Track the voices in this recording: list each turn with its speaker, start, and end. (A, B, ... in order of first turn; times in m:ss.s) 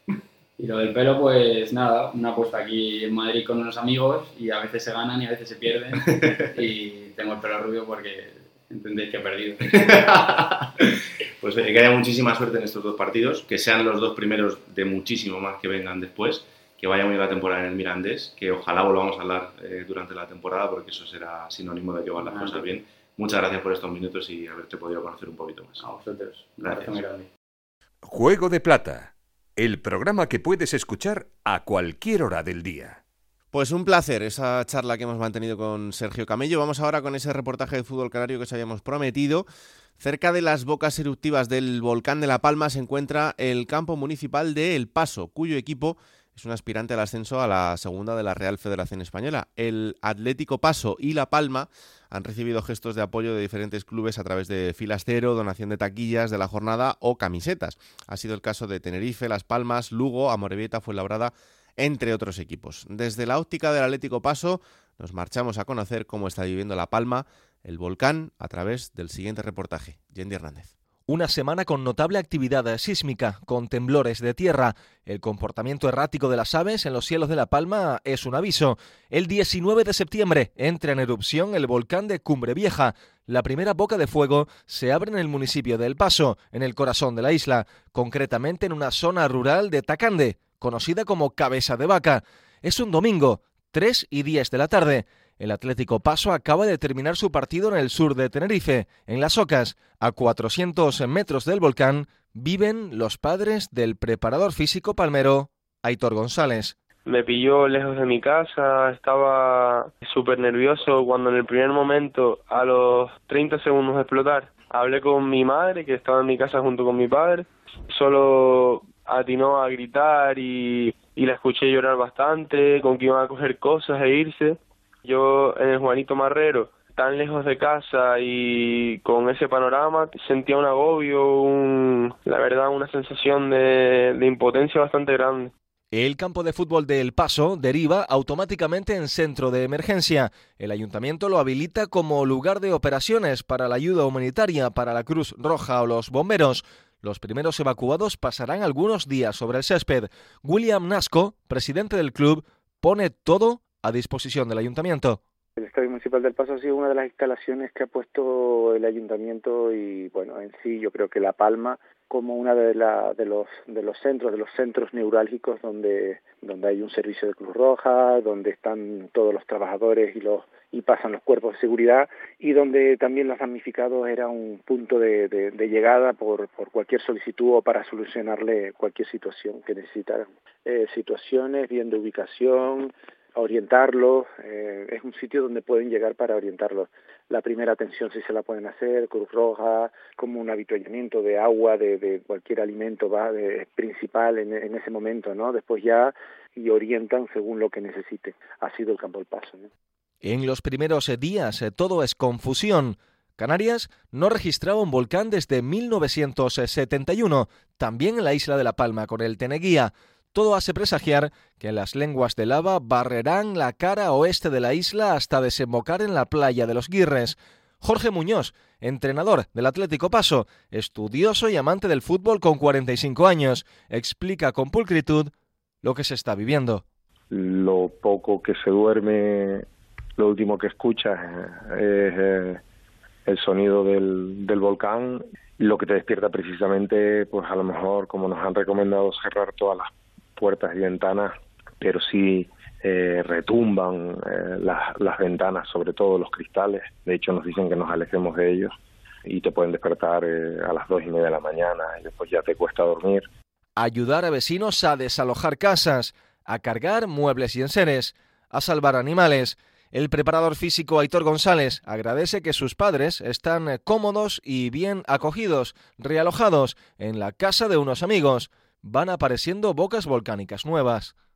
0:00.6-0:09.6 A
0:05.9-0:06.6 B
0:09.6-0:10.9 B
0:11.4-0:25.8 B
0:22.2-0:22.7 A
0:25.8-0:27.3 A
0:26.6-0:27.0 B
0:28.0-0:33.0 C
0:33.5-0:39.4 D
0:40.0-1:10.7 D
1:11.1-1:46.7 E
1:47.0-2:15.5 F
2:15.9-2:35.2 E
2:35.6-3:19.7 G
3:20.2-3:45.3 E
3:45.8-3:46.8 E
3:47.3-3:49.6 H
3:50.2-3:52.6 H
3:53.2-4:13.2 H
4:13.8-4:31.1 E